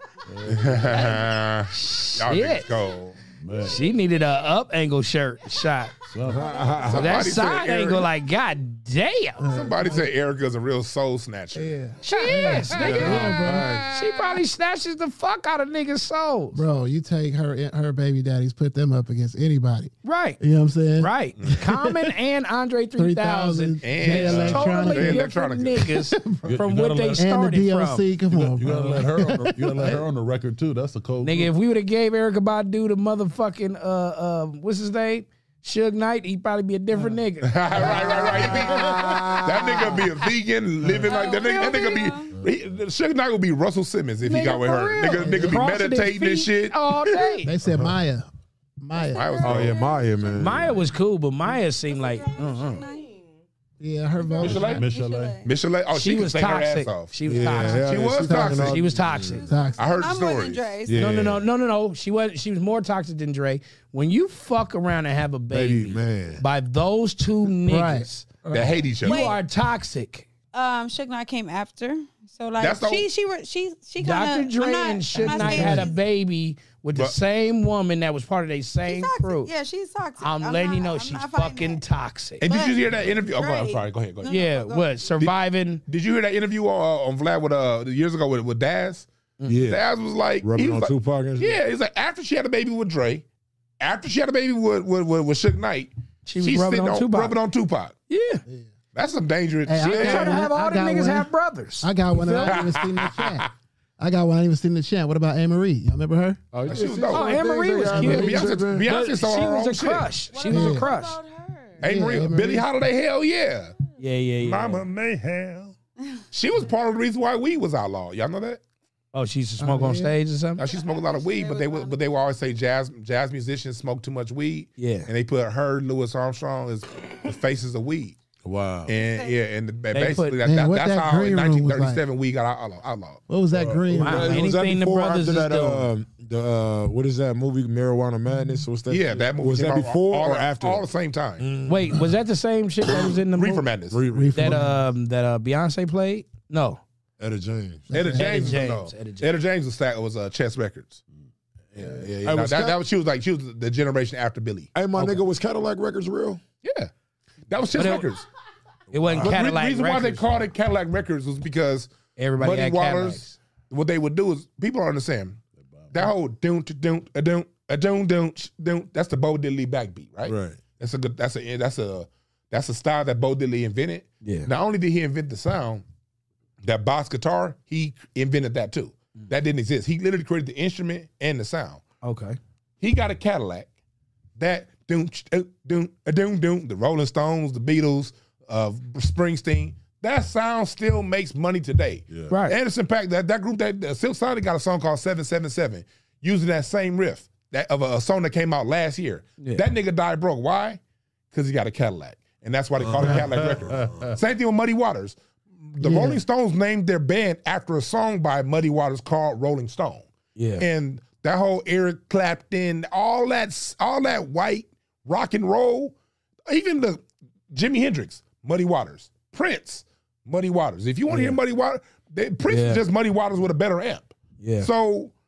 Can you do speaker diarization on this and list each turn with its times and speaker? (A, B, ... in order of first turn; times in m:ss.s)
0:00.2-0:01.1 A
0:00.5-0:03.2 B
0:01.7-0:02.7 C
0:03.3-0:03.9 A
0:03.6-0:05.9 C
0:06.0-0:06.6 A
0:06.2-0:07.4 D
0:06.8-0:08.1 B
0:06.9-0:09.4 C
0:09.4-0:10.1 E
0:09.5-0:11.8 B
0:11.5-0:13.8 E
0:12.0-0:16.6 C
0:12.7-0:14.3 B
0:12.8-0:13.9 D
0:16.5-0:22.1 E
0:20.0-0:20.4 C
0:21.0-0:28.1 C
0:23.0-0:26.6 E
0:23.8-0:25.8 B
0:26.4-0:27.3 A
0:27.2-0:30.0 E
0:28.3-0:31.5 A
0:31.2-0:38.5 C
0:37.4-0:47.3 B
0:37.8-0:39.4 E
0:38.7-0:40.0 D
0:41.1-0:42.4 F
0:44.2-0:47.5 C
0:45.1-0:45.6 E
0:47.4-0:48.3 E
0:47.6-0:47.9 D
0:48.8-0:49.6 E
0:49.0-0:50.0 F
0:49.1-0:49.8 B
0:49.4-0:50.8 D
0:50.3-0:52.8 C
0:51.5-0:53.4 G
0:52.4-0:53.1 F
0:53.8-0:54.9 E
0:54.2-0:55.5 F
0:54.4-0:54.8 B
0:54.5-0:55.4 A
0:55.4-0:57.1 B
0:55.9-0:59.5 C
0:57.2-0:59.5 D
0:57.7-0:58.8 B
0:58.2-0:58.8 E
0:58.9-0:59.3 G
0:59.3-1:01.2 F
0:59.4-0:59.9 E
0:59.8-1:00.7 B
1:00.9-1:01.5 D
1:00.9-1:08.3 C
1:05.5-1:06.4 D
1:07.6-1:08.8 E
1:08.5-1:09.4 B
1:09.0-1:10.3 C
1:09.0-1:09.4 F
1:10.5-1:16.0 F
1:12.6-1:13.0 B
1:14.0-1:19.5 C
1:15.2-1:15.9 E
1:18.8-1:21.8 F
1:20.2-1:22.4 C
1:22.4-1:24.4 B
1:22.4-1:25.2 F
1:24.3-1:25.8 C
1:25.2-1:29.1 B
1:29.4-1:29.6 C
1:29.5-1:29.8 D
1:29.6-1:33.2 B
1:30.4-1:31.6 D
1:33.8-1:37.9 B
1:36.2-1:37.4 C
1:38.1-1:38.4 C
1:38.9-1:40.4 B
1:39.6-1:41.3 E
1:39.8-1:42.6 C
1:41.8-1:43.5 E
1:42.4-1:43.5 B
1:44.0-1:46.5 E
1:46.5-1:48.9 D
1:46.6-1:47.4 B
1:46.7-1:51.2 C
1:47.8-1:48.5 E
1:48.0-1:50.1 B
1:50.3-1:52.0 G
1:50.5-1:50.8 E
1:51.8-1:53.7 B
1:51.8-1:52.6 E
1:54.0-1:54.8 C
1:54.4-1:55.7 B
1:56.3-1:58.6 B
1:59.1-2:00.6 C
1:59.6-2:00.2 E
2:00.6-2:08.2 B
2:00.6-2:02.0 F
2:04.8-2:05.1 C
2:08.4-2:08.9 D
2:08.9-2:13.2 B
2:09.0-2:09.4 F
2:09.9-2:10.4 C
2:10.4-2:12.0 E
2:13.3-2:14.5 E
2:13.5-2:20.9 D
2:13.9-2:15.9 C
2:18.9-2:21.4 B
2:21.4-2:22.1 D
2:21.6-2:23.7 C
2:23.3-2:24.0 B
2:23.9-2:24.7 D
2:24.1-2:24.8 E
2:24.3-2:26.8 C
2:27.2-2:27.9 D
2:27.9-2:28.6 E
2:27.9-2:31.0 B
2:28.1-2:29.3 C
2:31.7-2:34.7 B
2:31.8-2:32.8 D
2:34.7-2:36.4 D
2:34.9-2:35.2 C
2:36.6-2:36.9 B
2:37.5-2:38.2 B
2:37.7-2:38.1 C
2:38.9-2:39.3 A
2:38.9-2:40.2 C
2:39.2-2:45.4 B
2:42.2-2:43.4 C
2:45.6-2:46.1 A
2:45.9-2:55.8 B
2:50.2-2:50.6 D
2:54.2-2:54.5 C
2:56.6-3:01.8 B
3:02.0-3:02.4 C
3:02.8-3:03.7 B
3:04.4-3:20.8 B
3:12.1-3:12.3 A
3:12.3-3:12.6 C
3:21.3-3:35.9 B
3:22.8-3:24.2 A
3:25.8-3:26.2 E
3:30.4-3:30.6 C
3:36.5-3:45.1 B
3:41.1-3:41.4 C
3:42.5-3:42.8 C
3:44.4-3:44.7 C